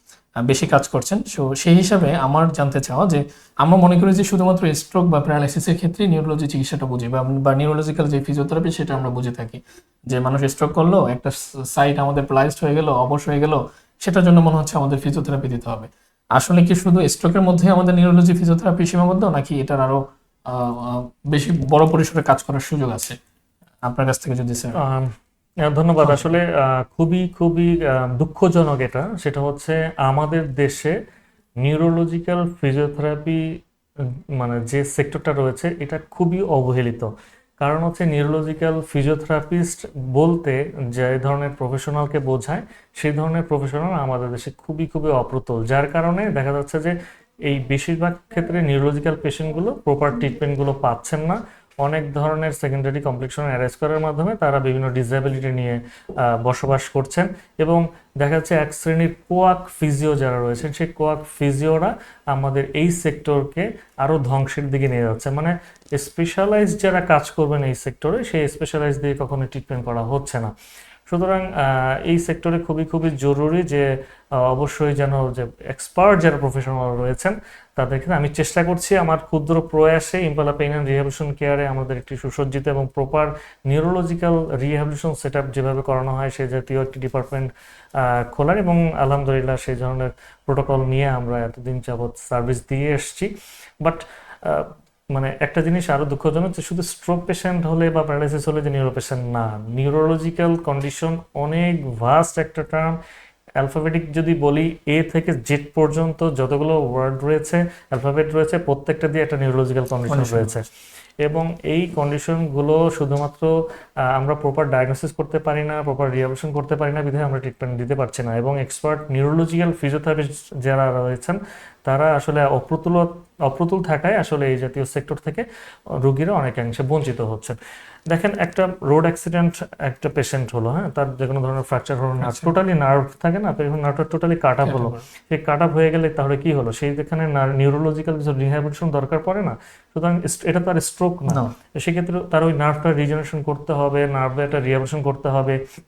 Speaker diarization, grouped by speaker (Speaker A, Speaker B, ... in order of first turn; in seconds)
Speaker A: 0.4-23.1, 23.9-24.8, 26.0-26.3, 110.1-110.5, 132.2-132.5, 134.6-134.9, 141.3-141.5
Speaker B: 24.8-25.1, 25.7-30.9, 31.6-33.4, 34.0-37.1, 37.6-55.8, 56.4-70.5, 71.1-73.8, 74.4-87.5, 88.0-93.3, 93.8-103.0, 103.6-110.7, 111.2-113.5, 114.1-125.4, 126.0-127.6, 128.1-145.6